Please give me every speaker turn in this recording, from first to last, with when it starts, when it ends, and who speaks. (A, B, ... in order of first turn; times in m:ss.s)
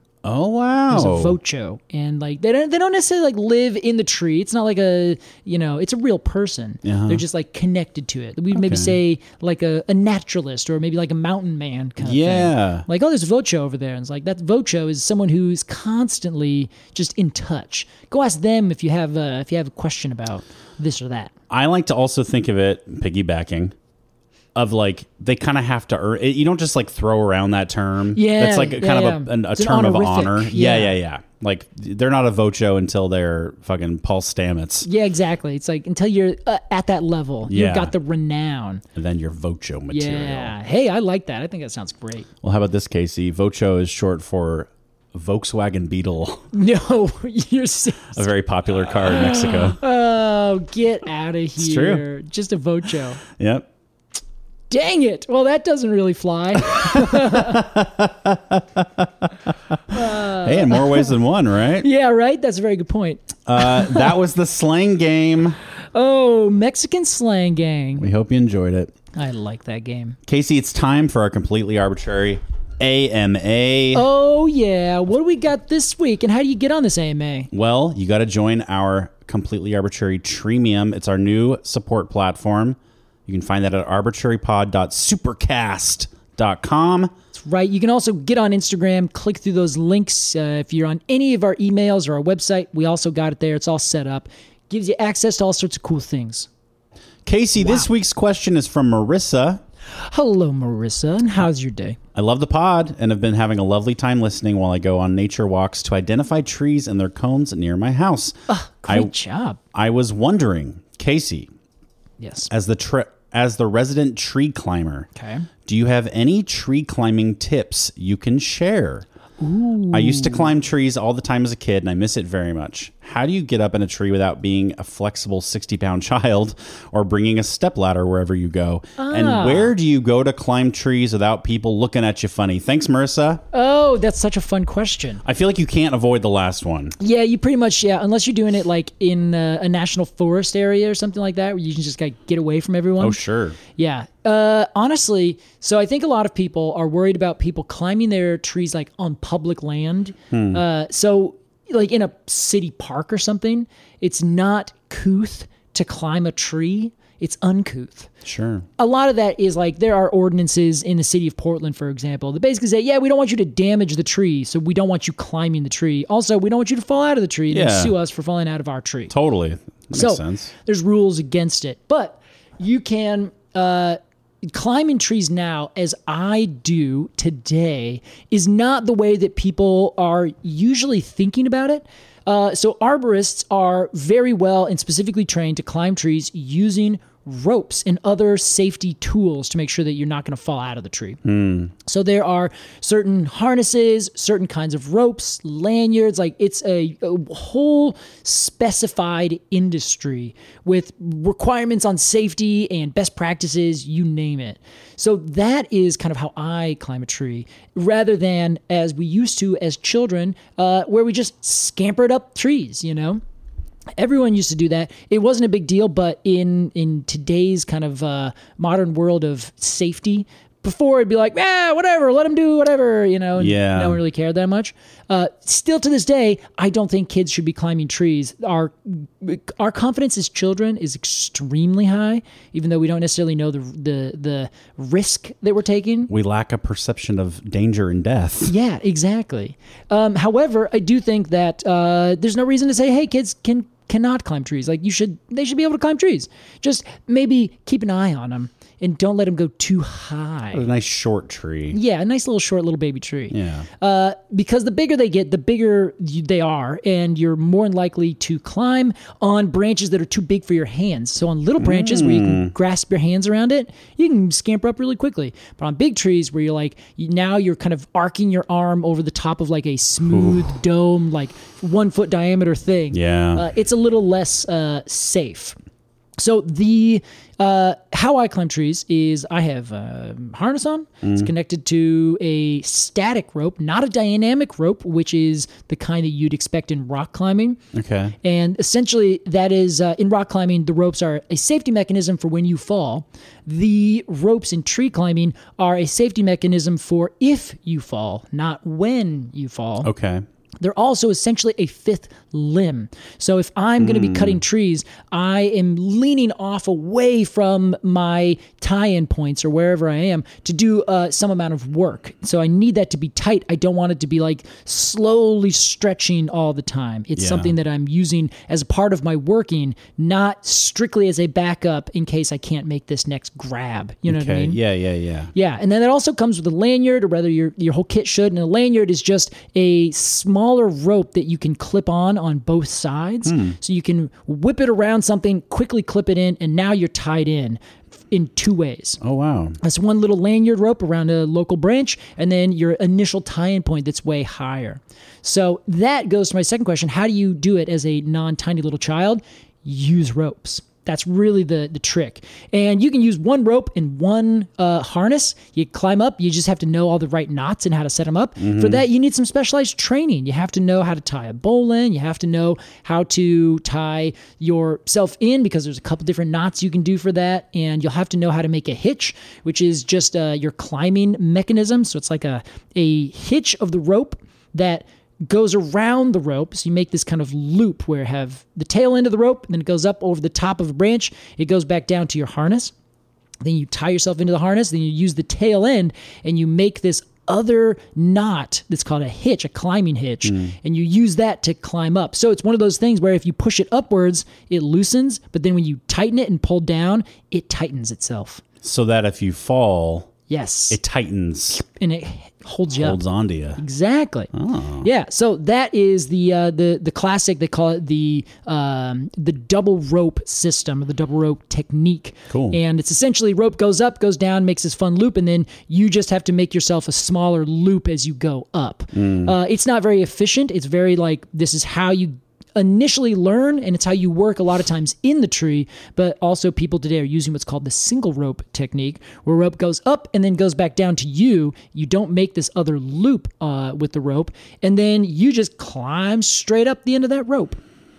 0:00.2-0:01.4 A
0:00.9-0:21.3 B
0:06.8-0:07.2 A
0:08.5-0:09.0 A
0:12.0-0:12.9 A
0:21.5-0:23.7 A
0:24.5-0:34.9 A
0:28.1-0:31.0 B
0:34.8-0:38.8 B
0:37.4-0:37.9 A
0:38.9-0:40.5 A
0:39.9-0:42.3 B
0:42.4-0:46.5 A
0:46.5-0:48.3 B
0:48.1-0:49.8 A
0:49.0-0:53.2 B
0:51.6-0:52.0 A
0:53.3-0:53.7 A
0:54.7-0:57.6 B
0:56.7-1:01.9 A
0:59.9-1:01.1 B
1:01.8-1:04.1 B
1:03.5-1:05.6 A
1:05.9-1:08.1 B
1:08.0-1:08.9 A
1:09.1-1:10.2 B
1:10.3-1:14.0 A
1:13.9-1:17.5 B
1:17.5-1:27.1 A
1:27.3-1:36.5 B
1:37.2-1:39.6 A
1:37.6-1:37.9 B
1:39.9-1:42.0 B
1:42.1-1:49.1 A
1:48.5-1:49.6 B
1:49.7-1:51.5 A
1:52.2-1:52.5 B
1:52.5-1:55.1 A
1:55.1-1:55.5 B
1:55.6-1:59.0 A
1:59.4-2:00.5 B
1:59.9-2:13.4 A
2:09.0-2:09.7 B
2:13.5-2:15.2 B
2:15.2-2:17.0 A
2:17.0-2:23.2 B
2:23.0-2:23.6 A
2:23.8-2:38.1 B
2:30.3-2:30.6 A
2:38.2-2:38.7 A
2:38.8-2:49.1 B
2:47.5-2:47.9 A
2:49.1-2:50.5 A
2:49.9-3:11.2 B
3:11.2-3:11.7 A
3:11.8-3:33.2 B
3:34.0-3:56.1 B
3:43.4-3:44.0 A
3:56.1-3:58.5 A
3:58.4-4:10.7 B
4:10.5-4:11.8 A
4:11.7-4:35.6 B
4:13.3-4:13.7 A
4:21.6-4:22.5 A
4:30.0-4:30.5 A
4:32.9-4:33.4 A
4:36.2-4:47.6 B
4:41.0-4:41.3 A
4:47.7-4:48.2 A
4:48.2-4:59.9 B
4:59.8-5:00.2 A
5:00.6-5:24.6 B
5:03.8-5:04.4 A
5:17.2-5:17.5 A
5:24.0-5:25.3 A
5:25.3-5:39.0 B
5:33.2-5:33.6 A
5:39.0-5:39.6 A
5:39.6-6:22.7 B
5:58.4-5:58.8 A
6:23.4-6:38.4 B
6:30.2-6:30.5 A
6:38.6-6:40.1 A
6:40.3-6:40.8 B
6:40.7-6:41.6 A
6:41.5-6:43.0 B
6:42.7-6:43.6 A
6:43.6-6:44.3 B
6:44.3-6:44.9 A
6:44.8-7:17.6 B
6:52.3-6:52.6 A
6:58.9-6:59.3 A